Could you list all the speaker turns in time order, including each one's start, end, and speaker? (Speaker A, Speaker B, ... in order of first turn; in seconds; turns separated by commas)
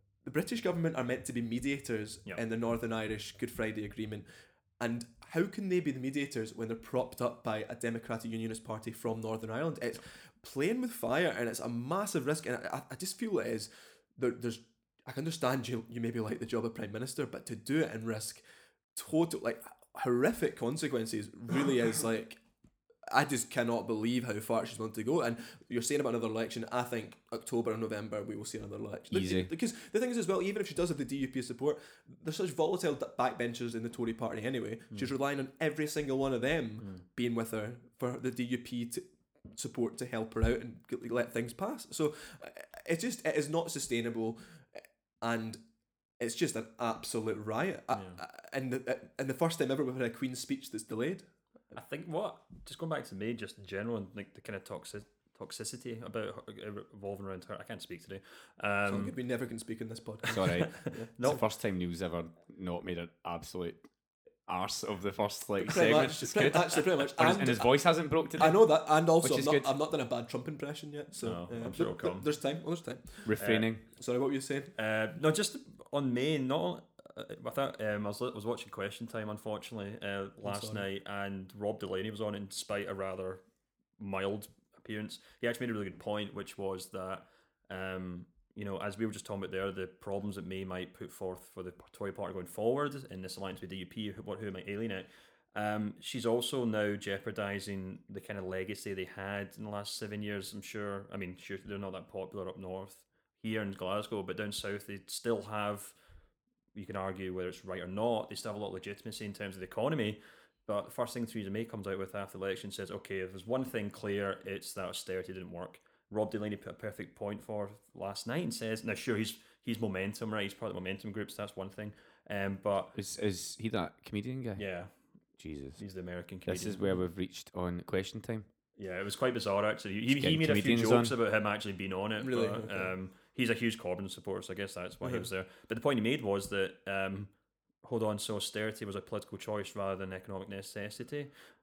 Speaker A: 0.2-4.2, Speaker A: 4.8-18.4, Speaker A: 18.9-22.4, Speaker A: 23.1-45.6, Speaker B: 29.1-29.5, Speaker A: 46.2-51.3, Speaker C: 51.7-59.1, Speaker A: 58.9-60.4, Speaker B: 60.3-63.8, Speaker C: 60.4-61.4, Speaker B: 64.5-69.7, Speaker A: 65.6-67.7, Speaker A: 68.4-73.3, Speaker C: 71.2-72.2, Speaker B: 73.2-73.8, Speaker C: 73.4-73.7, Speaker A: 73.9-74.7, Speaker C: 74.8-83.4, Speaker A: 80.4-80.8, Speaker C: 84.0-105.9, Speaker C: 106.7-122.9, Speaker B: 122.9-124.6, Speaker C: 124.6-124.9, Speaker B: 125.4-125.8, Speaker C: 125.8-126.8, Speaker B: 126.5-128.4, Speaker C: 128.8-137.3, Speaker B: 130.1-131.1, Speaker A: 132.2-132.9, Speaker C: 137.8-141.3